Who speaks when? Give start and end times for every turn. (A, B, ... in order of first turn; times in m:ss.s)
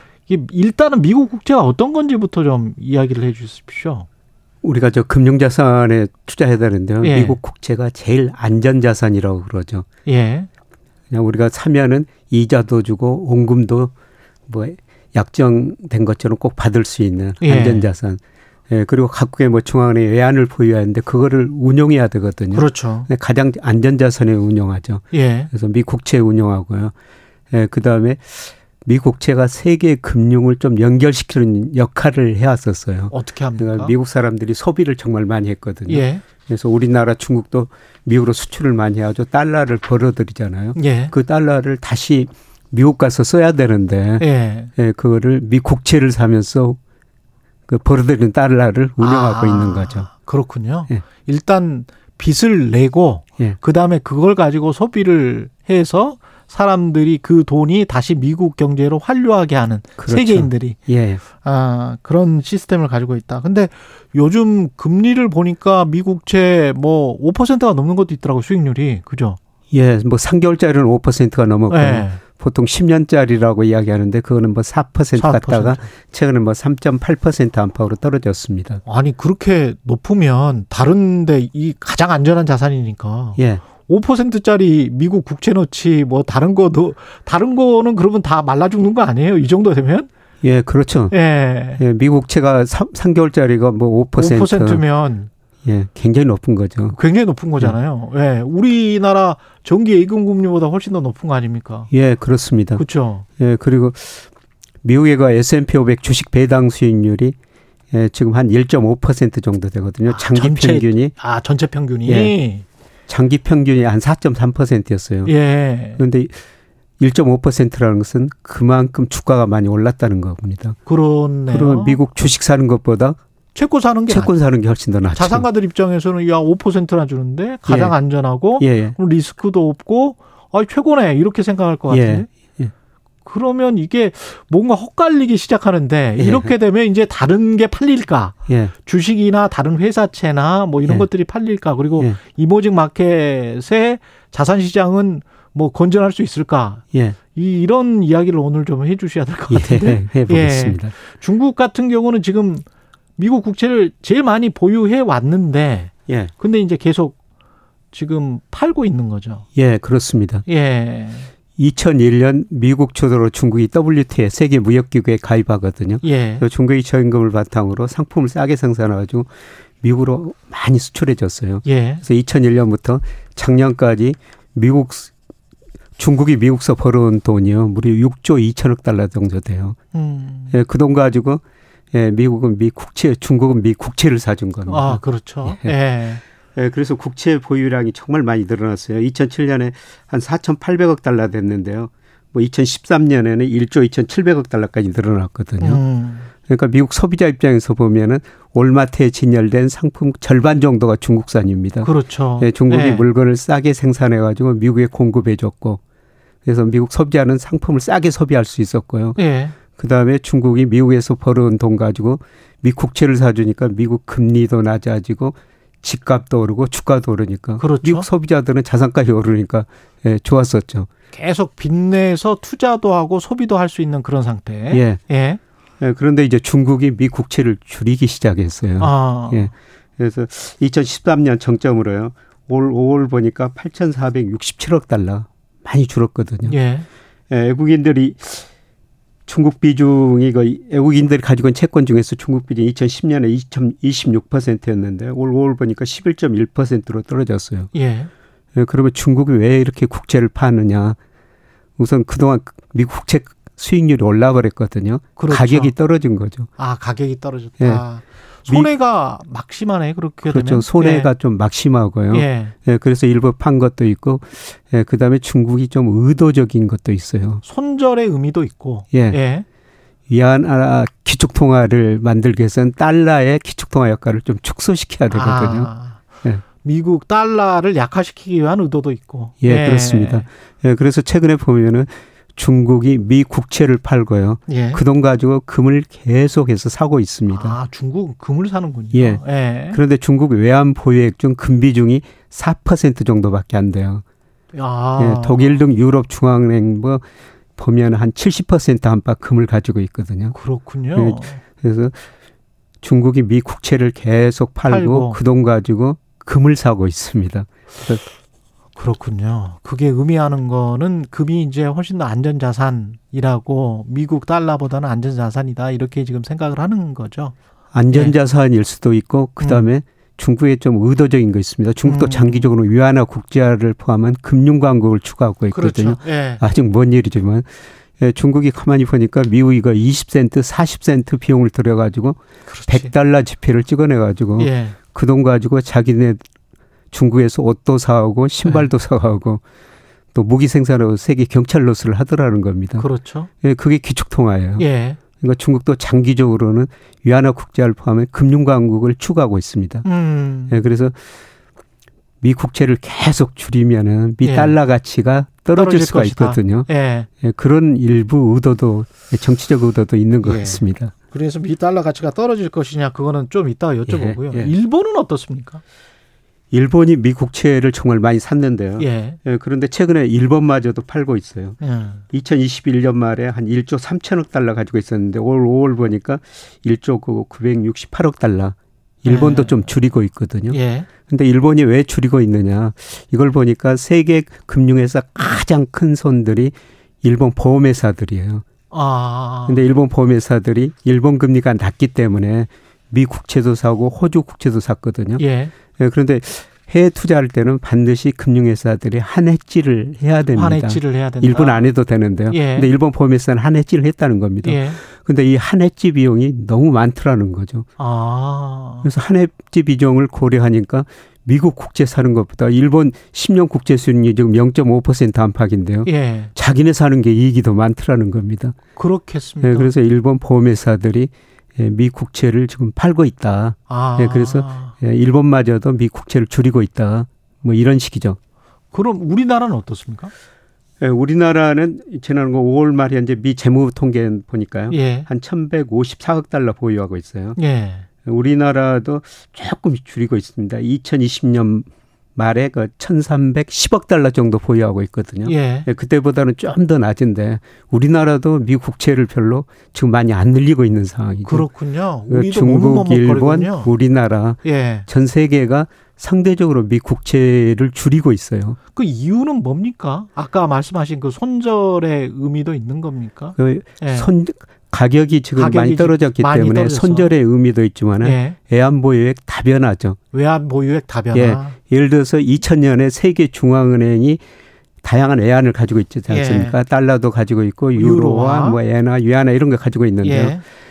0:00.3-0:04.1 A
0:04.6-0:09.8 B
0:07.0-0:07.4 A
0:10.0-0:10.5 A
0:11.1-0:13.9 B
0:14.5-0:26.9 B
0:17.4-0:17.9 A
0:22.5-0:23.1 A
0:25.1-0:25.5 A
0:27.5-0:44.2 B
0:33.1-0:33.9 A
0:35.9-0:36.2 A
0:40.8-0:41.1 A
0:44.2-0:44.7 A
0:44.8-0:46.8 B
0:47.7-0:50.1 B
0:49.0-1:00.8 A
1:00.0-1:01.2 B
1:01.4-1:09.4 A
1:09.7-1:18.8 B
1:11.7-1:12.2 A
1:15.2-1:15.8 A
1:18.8-1:30.1 A
1:23.4-1:23.6 B
1:30.4-1:31.1 B
1:31.1-1:31.8 A
1:31.8-1:34.8 B
1:34.2-1:35.3 A
1:35.6-1:36.9 B
1:36.9-1:41.9 A
1:41.9-1:42.8 B
1:42.8-1:43.2 A
1:43.4-1:44.2 B
1:44.8-1:47.3 B
1:47.9-1:51.1 B
1:50.0-1:52.6 A
1:52.0-1:52.3 B
1:53.1-1:55.3 B
1:55.2-1:56.0 A
1:56.0-1:56.3 B
1:57.0-2:00.8 B
2:00.8-2:02.0 A
2:01.5-2:03.2 B
2:03.5-2:04.3 A
2:04.1-2:05.4 B
2:05.1-2:12.3 A
2:07.7-2:07.9 B
2:08.6-2:09.0 B
2:11.9-2:12.7 B
2:13.2-2:32.6 A
2:16.2-2:16.5 B
2:18.5-2:18.7 B
2:29.5-2:30.9 B
2:33.2-2:37.2 A
2:37.9-2:39.4 A
2:39.6-2:40.4 B
2:40.4-2:41.3 A
2:41.6-2:49.3 B
2:46.0-2:46.4 A
2:49.8-2:55.1 B
2:51.6-2:52.0 A
2:56.0-2:59.8 B
2:59.9-3:00.6 A
3:00.5-3:01.4 B
3:01.9-3:05.7 B
3:04.7-3:06.2 A
3:06.5-3:15.8 B
3:15.6-3:16.3 A
3:16.5-3:25.8 B
3:21.8-3:23.0 A
3:26.4-3:29.2 B
3:29.2-3:29.6 A
3:29.7-3:40.9 B
3:37.6-3:38.1 A
3:41.1-3:45.4 A
3:44.7-3:45.0 B
3:45.8-3:56.6 B
3:48.8-3:49.5 A
3:56.4-3:56.9 A
3:57.3-3:58.5 B
3:59.2-4:07.7 B
4:07.7-4:08.1 A
4:08.6-4:11.0 B
4:11.8-4:16.5 B
4:15.2-4:15.7 A
4:16.6-4:21.1 A
4:20.2-4:27.4 B
4:22.1-4:22.5 A
4:27.4-4:29.4 A
4:28.9-4:29.2 B
4:30.1-4:35.7 B
4:35.1-4:36.0 A
4:36.6-4:40.3 A
4:39.4-4:47.6 B
4:44.5-4:44.8 A
4:47.3-4:49.8 A
4:48.9-4:49.2 B
4:49.7-4:54.0 B
4:54.5-4:55.6 A
4:55.0-4:57.0 B
4:57.6-5:00.3 B
5:00.3-5:01.4 A
5:00.9-5:01.9 B
5:02.8-5:08.0 B
5:04.6-5:05.2 A
5:08.8-5:17.3 A
5:17.7-5:27.4 B
5:17.9-5:18.2 A
5:19.4-5:19.7 A
5:21.8-5:22.5 A
5:25.5-5:26.4 A
5:28.0-5:36.2 B
5:32.4-5:32.9 A
5:34.4-5:34.8 A
5:36.9-5:39.4 B
5:38.4-5:38.7 A
5:40.1-5:42.8 B
5:42.8-5:43.3 A
5:43.4-5:44.6 B
5:44.6-5:45.0 A
5:45.2-5:49.8 B
5:49.8-5:50.6 A
5:50.5-5:50.9 B
5:52.2-5:56.7 B
5:54.2-5:54.6 A
5:55.5-5:57.1 A
5:57.2-6:00.9 B
6:00.2-6:05.6 A
6:03.9-6:04.5 B
6:06.5-6:11.6 B
6:08.8-6:09.2 A
6:11.6-6:12.0 A
6:12.1-6:28.4 B
6:19.0-6:19.6 A
6:20.5-6:20.9 A
6:28.7-6:29.6 A
6:29.5-6:35.2 B
6:35.2-6:35.5 A
6:35.8-6:47.7 B
6:40.3-6:41.7 A
6:42.3-6:42.7 A
6:44.4-6:44.8 A
6:47.8-6:48.9 A
6:48.8-6:58.5 B
6:55.8-6:56.3 A
6:58.8-6:59.7 A
6:59.4-7:08.2 B
7:03.7-7:04.7 A
7:08.7-7:10.1 A
7:10.8-7:17.4 B
7:14.7-7:15.1 A
7:17.4-7:17.9 A
7:18.0-7:31.4 B
7:25.2-7:25.7 A
7:31.2-7:33.7 A
7:32.1-7:38.6 B
7:34.4-7:34.9 A
7:38.7-7:44.1 A
7:43.4-7:50.0 B
7:45.4-7:47.1 A
7:48.0-7:48.4 A
7:50.1-7:51.6 A
7:51.1-7:54.2 B
7:54.8-8:00.4 B
7:56.1-7:56.6 A
7:57.8-7:58.6 A
8:00.0-8:00.4 A